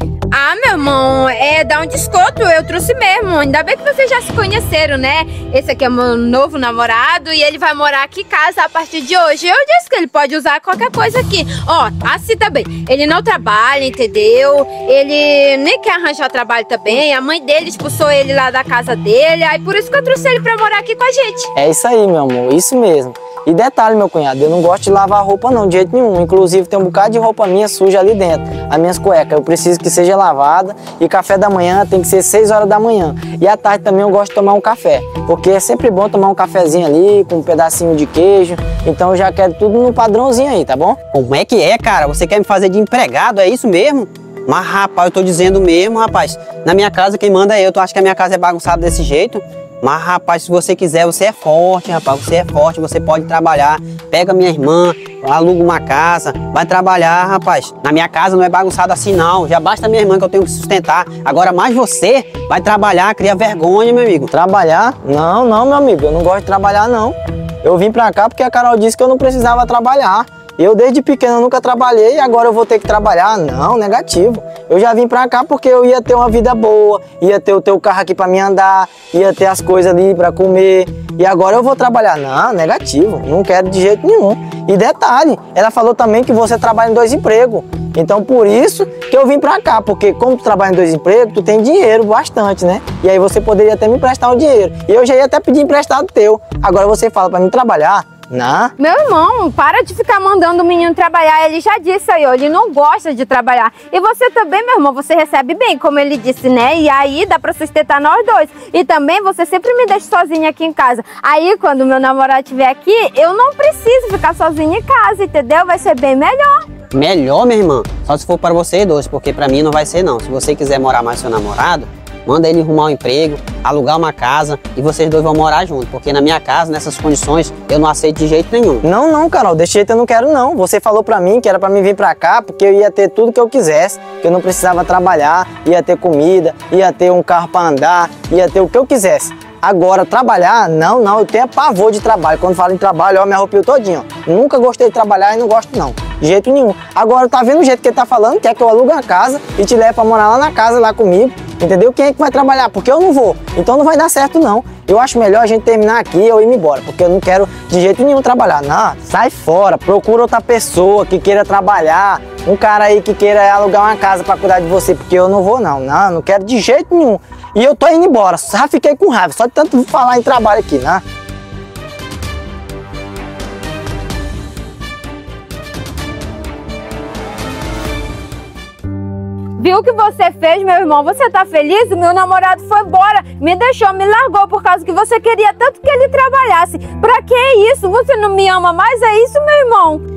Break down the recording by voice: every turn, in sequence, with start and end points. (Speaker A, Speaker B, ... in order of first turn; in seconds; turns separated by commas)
Speaker A: 0.3-21.5, Speaker B: 21.6-41.0, Speaker C: 41.1-64.3, Speaker B: 64.3-98.7, Speaker A: 98.8-116.7, Speaker C: 116.9-128.8, Speaker B: 128.8-171.0, Speaker A: 179.6-190.0